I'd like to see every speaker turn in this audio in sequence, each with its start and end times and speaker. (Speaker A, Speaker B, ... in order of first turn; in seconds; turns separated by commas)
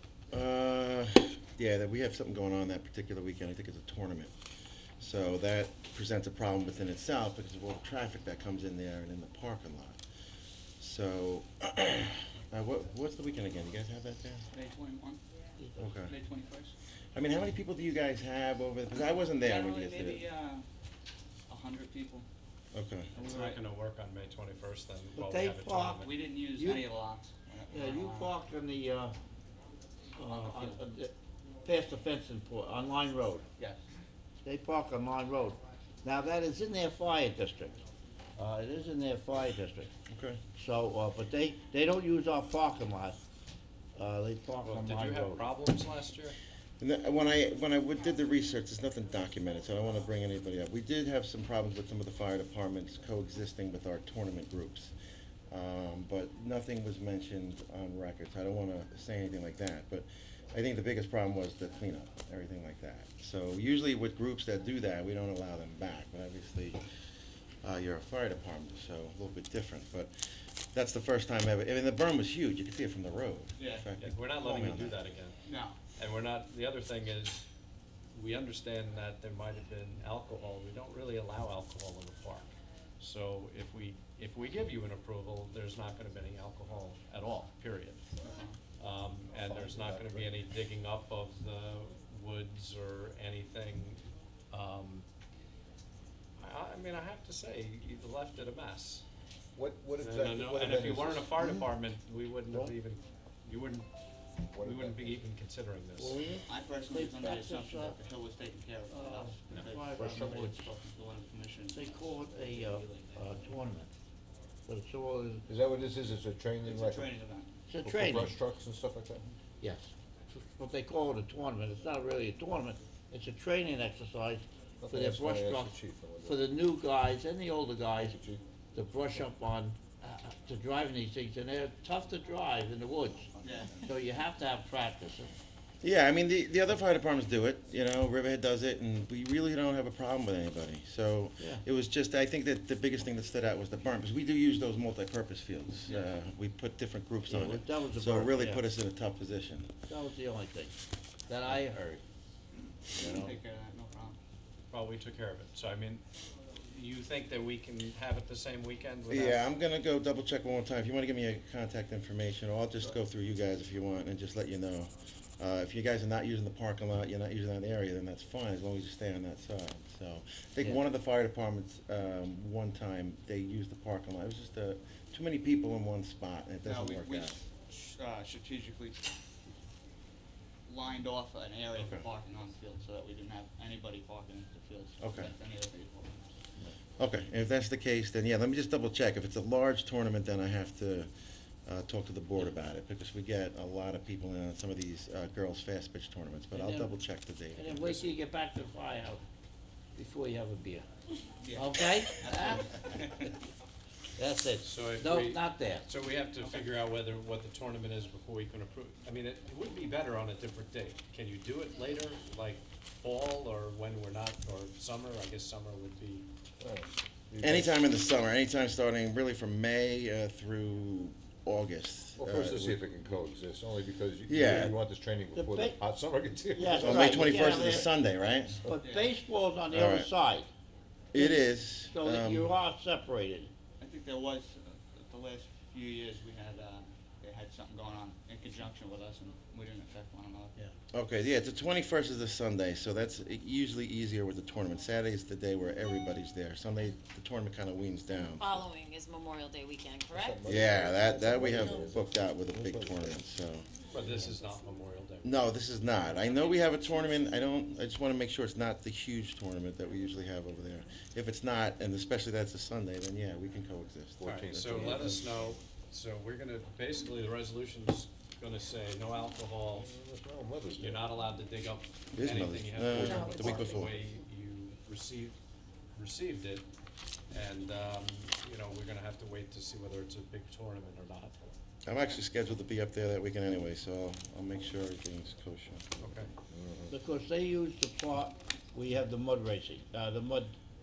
Speaker A: 0.3-4.3, Speaker A: 5.0-10.0, Speaker A: 10.8-14.4, Speaker B: 14.5-15.2, Speaker C: 15.6-15.8, Speaker A: 15.8-16.1, Speaker B: 16.0-16.7, Speaker A: 17.1-20.2, Speaker B: 19.4-20.6, Speaker B: 21.5-22.2, Speaker A: 22.7-23.1, Speaker B: 23.1-23.6, Speaker D: 23.2-26.1, Speaker C: 25.1-26.8, Speaker B: 26.0-28.4, Speaker C: 27.7-29.1, Speaker C: 30.1-31.1, Speaker B: 30.2-30.8, Speaker C: 31.6-33.5, Speaker B: 33.6-33.8, Speaker C: 34.4-37.8, Speaker C: 38.4-39.9, Speaker A: 40.1-40.4, Speaker C: 40.6-43.2, Speaker C: 44.0-45.5, Speaker D: 44.6-46.4, Speaker A: 46.8-54.9, Speaker A: 55.5-66.8, Speaker A: 67.6-70.1, Speaker A: 70.7-75.0, Speaker B: 73.6-73.9, Speaker D: 74.0-75.4, Speaker B: 75.5-75.8, Speaker D: 76.0-77.4, Speaker D: 78.1-82.5, Speaker D: 83.0-88.0, Speaker B: 88.2-88.6, Speaker D: 88.8-95.1, Speaker E: 89.5-90.4, Speaker D: 96.4-99.0, Speaker E: 99.6-101.4, Speaker D: 100.0-103.9, Speaker E: 104.5-105.3, Speaker D: 104.6-106.2, Speaker C: 106.0-108.0, Speaker B: 106.5-111.9, Speaker C: 108.9-110.7, Speaker E: 110.0-110.6, Speaker C: 111.7-113.9, Speaker C: 114.7-115.5, Speaker E: 115.5-117.1, Speaker B: 116.6-117.6, Speaker C: 117.7-118.4, Speaker E: 117.8-119.3, Speaker C: 119.6-128.2, Speaker E: 124.8-126.5, Speaker E: 128.0-128.4, Speaker C: 128.7-133.3, Speaker B: 133.4-133.8, Speaker C: 133.8-135.3, Speaker A: 135.8-149.7, Speaker B: 145.8-146.1, Speaker C: 147.2-148.6, Speaker C: 149.9-150.8, Speaker C: 151.3-152.0, Speaker B: 152.9-154.2, Speaker C: 152.9-153.3, Speaker D: 154.7-156.0, Speaker D: 156.7-159.4, Speaker A: 159.1-177.3, Speaker B: 176.6-179.0, Speaker B: 180.7-186.3, Speaker A: 181.8-182.0, Speaker A: 185.0-185.3, Speaker A: 187.0-191.1, Speaker A: 191.7-197.8, Speaker C: 196.5-196.9, Speaker C: 197.5-199.2, Speaker D: 197.8-198.1, Speaker C: 199.9-200.9, Speaker B: 201.4-203.3, Speaker C: 201.5-202.8, Speaker C: 204.2-205.9, Speaker D: 204.6-216.3, Speaker E: 216.6-217.8, Speaker A: 217.4-222.8, Speaker E: 222.2-227.9, Speaker A: 224.3-224.8, Speaker C: 225.3-225.8, Speaker C: 226.5-227.9, Speaker A: 226.8-228.7, Speaker C: 228.6-230.5, Speaker B: 228.8-229.1, Speaker A: 229.7-230.1, Speaker A: 231.1-232.5, Speaker C: 231.1-233.5, Speaker B: 233.8-240.6, Speaker A: 240.9-248.6, Speaker F: 248.3-250.4, Speaker E: 250.1-253.3, Speaker A: 250.4-253.7, Speaker D: 253.9-255.4, Speaker E: 254.0-254.3, Speaker A: 255.2-265.2, Speaker E: 264.2-265.6, Speaker D: 264.2-269.9, Speaker E: 269.7-271.1, Speaker D: 270.8-275.4, Speaker A: 272.1-274.0, Speaker C: 273.0-273.7, Speaker D: 276.0-276.7, Speaker D: 277.3-281.5, Speaker A: 281.9-286.0, Speaker D: 286.0-286.3, Speaker E: 286.5-286.9, Speaker C: 286.9-290.6